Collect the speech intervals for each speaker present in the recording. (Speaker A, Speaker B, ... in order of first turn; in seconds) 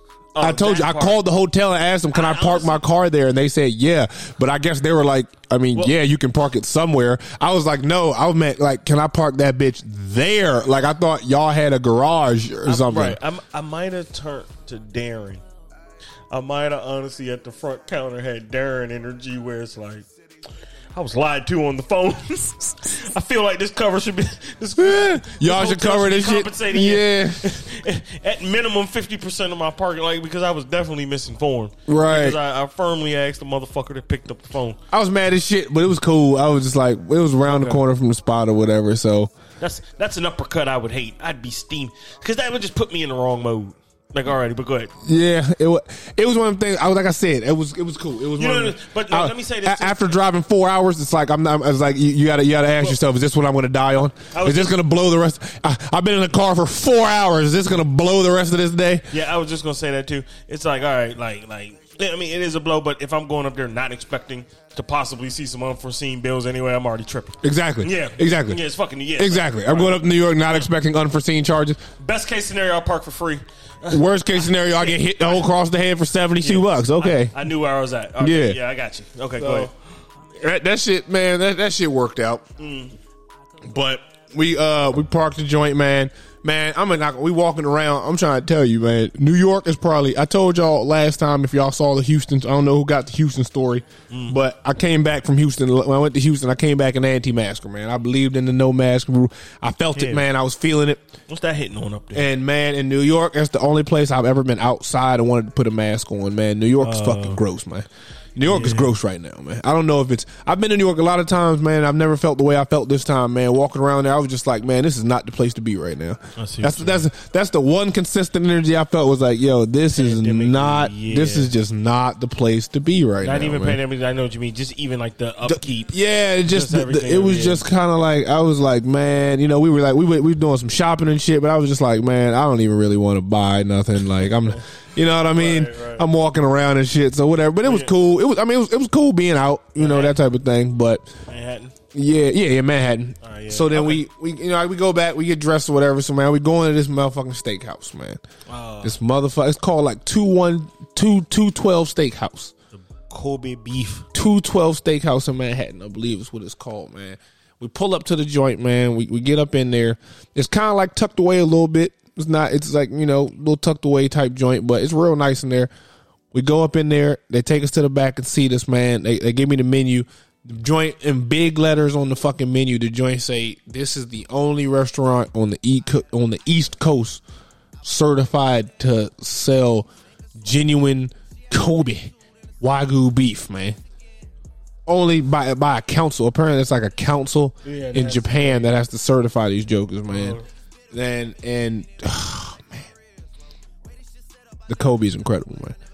Speaker A: 0.3-1.2, 2.1-2.9, 12.7-15.4, 16.3-20.1, 20.9-34.8, 37.5-37.8, 39.6-44.9, 48.4-50.2, 54.3-54.8, 59.1-70.7, 72.0-75.4, 76.4-79.7, 82.6-83.0, 94.1-94.4, 99.9-100.3, 101.3-102.3, 106.8-107.4, 108.4-109.0, 116.4-117.1, 119.9-121.5, 123.2-126.0, 126.5-127.7, 134.4-136.1, 137.6-137.9, 139.8-140.2, 141.3-141.8, 143.2-144.1, 148.5-149.0, 152.7-154.1, 187.6-188.8, 190.1-190.5
Speaker B: 0.4-13.2, 24.8-27.4, 31.9-32.4, 34.9-39.3, 45.0-59.1, 67.4-68.6, 69.2-71.8, 73.9-77.4, 78.2-78.6, 79.4-79.7, 80.4-82.5, 83.6-101.0, 102.1-123.8, 125.5-141.1, 141.9-148.2, 148.8-152.5, 154.1-165.7, 166.3-177.2, 177.8-179.9, 180.4-183.8, 184.9-190.4, 190.9-192.9, 194.7-195.8